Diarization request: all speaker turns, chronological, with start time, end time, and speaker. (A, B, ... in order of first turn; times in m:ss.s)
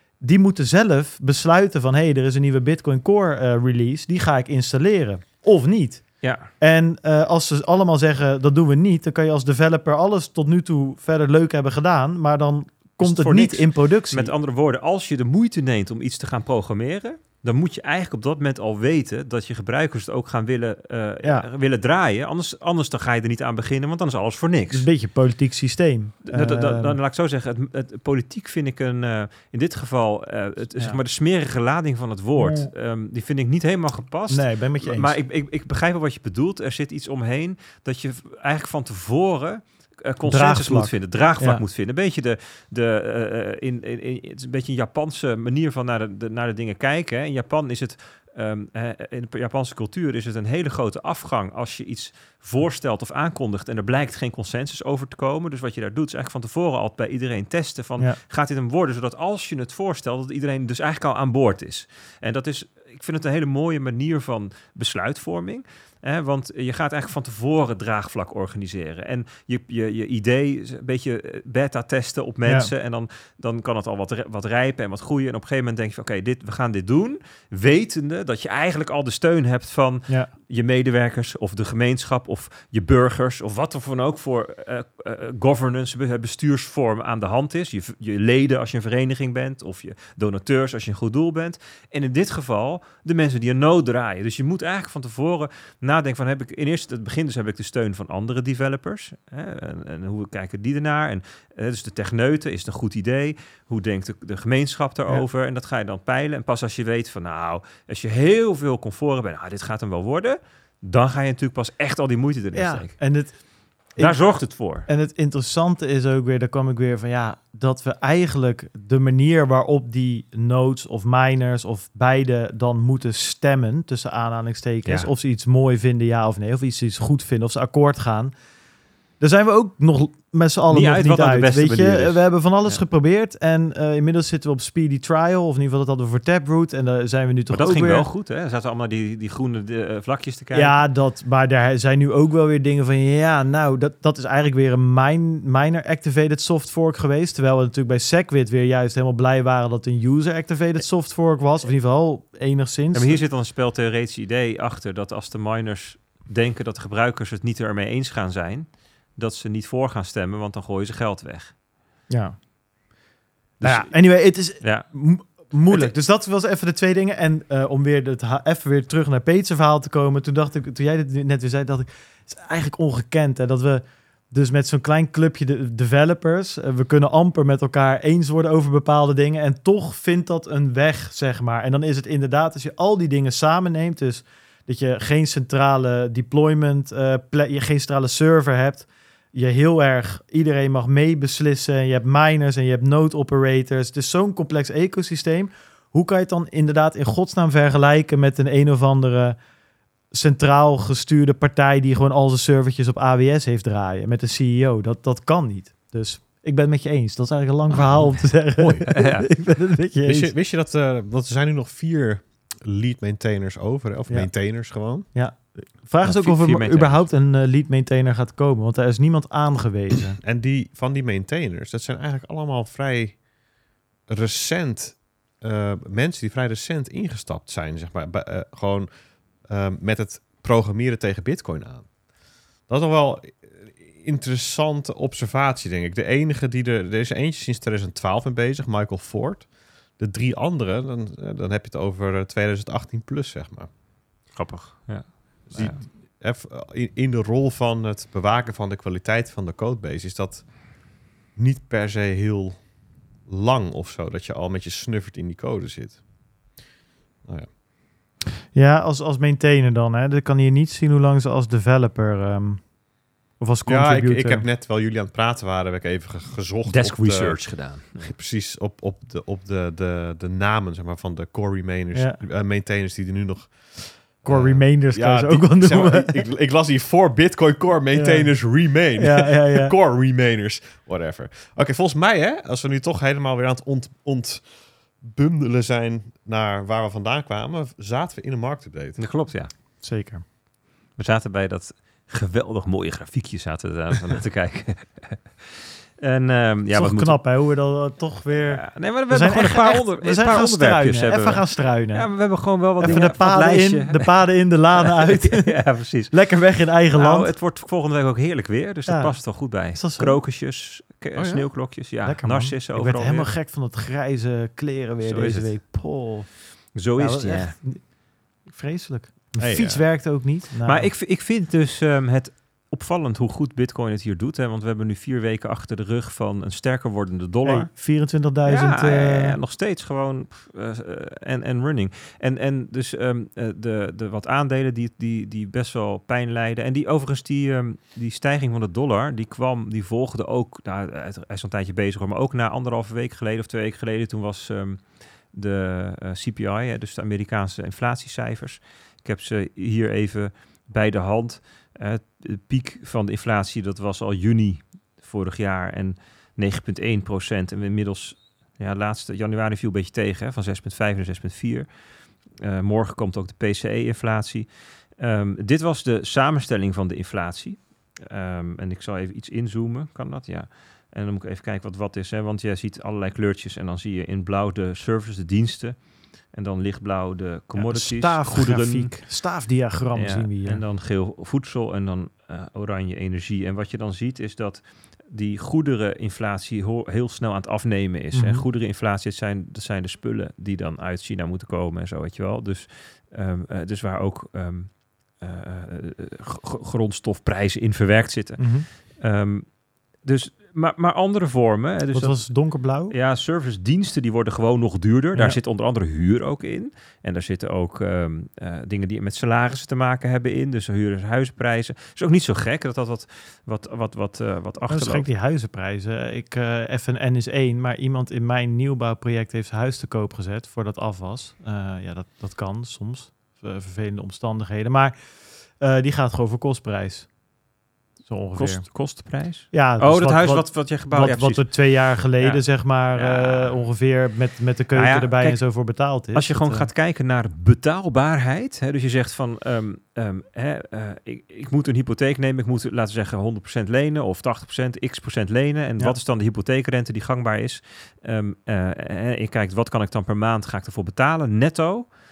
0:00.2-0:06.1 A
0:06.2-0:06.5 B
0:06.6-0:14.3 A
0:13.0-0:24.9 B
0:24.7-0:27.0 A
0:26.3-1:52.9 B
0:32.4-0:32.7 A
0:34.3-0:35.1 A
0:40.2-0:41.6 A
1:12.4-1:12.7 A
1:52.5-1:53.4 A
1:54.0-2:08.3 A
1:54.0-1:54.9 B
2:09.2-2:18.1 A
2:10.7-2:12.8 B
2:17.5-2:20.7 B
2:20.5-2:33.2 A
2:32.9-2:41.5 B
2:42.1-2:42.4 A
2:43.6-3:19.4 A
2:43.6-2:44.9 B
3:20.1-3:30.3 A
3:28.6-3:29.2 B
3:30.0-3:35.1 C
3:34.1-3:40.2 A
3:36.0-3:37.1 B
3:40.2-3:43.2 C
3:44.1-3:48.9 C
3:49.4-3:51.9 C
3:52.7-4:03.7 C
4:04.3-4:05.8 B
4:05.5-4:10.5 C
4:11.3-4:12.7 C
4:13.2-4:16.0 C
4:17.2-4:17.5 C
4:18.5-4:22.7 A
4:23.4-4:24.4 A
4:23.7-4:49.0 C
4:26.7-4:28.1 B
4:31.9-4:32.2 A
4:34.2-4:36.1 A
4:37.9-4:39.7 A
4:49.0-4:49.5 B
4:49.8-4:50.2 A
4:51.0-4:55.5 B
4:56.0-4:57.2 B
4:56.7-5:02.1 A
4:58.4-5:04.1 B
5:02.8-5:05.5 A
5:04.8-5:06.2 B
5:06.1-5:07.3 A
5:06.9-5:13.3 B
5:08.9-5:10.2 A
5:11.2-5:11.4 C
5:12.0-5:20.9 A
5:15.0-5:15.5 B
5:16.7-5:17.6 B
5:19.4-5:19.8 C
5:20.6-5:27.9 B
5:27.4-5:29.4 A
5:28.4-6:01.7 B
6:02.3-6:19.0 B
6:17.5-6:20.6 A
6:19.9-6:39.5 B
6:28.1-6:28.4 A
6:38.4-6:38.7 A
6:40.0-6:42.3 B
6:41.9-6:42.9 A
6:42.9-6:55.1 B
6:54.7-7:07.1 A
7:08.0-7:08.7 A
7:08.4-7:13.6 B
7:09.5-7:16.7 A
7:14.7-7:15.6 B
7:16.1-7:31.9 B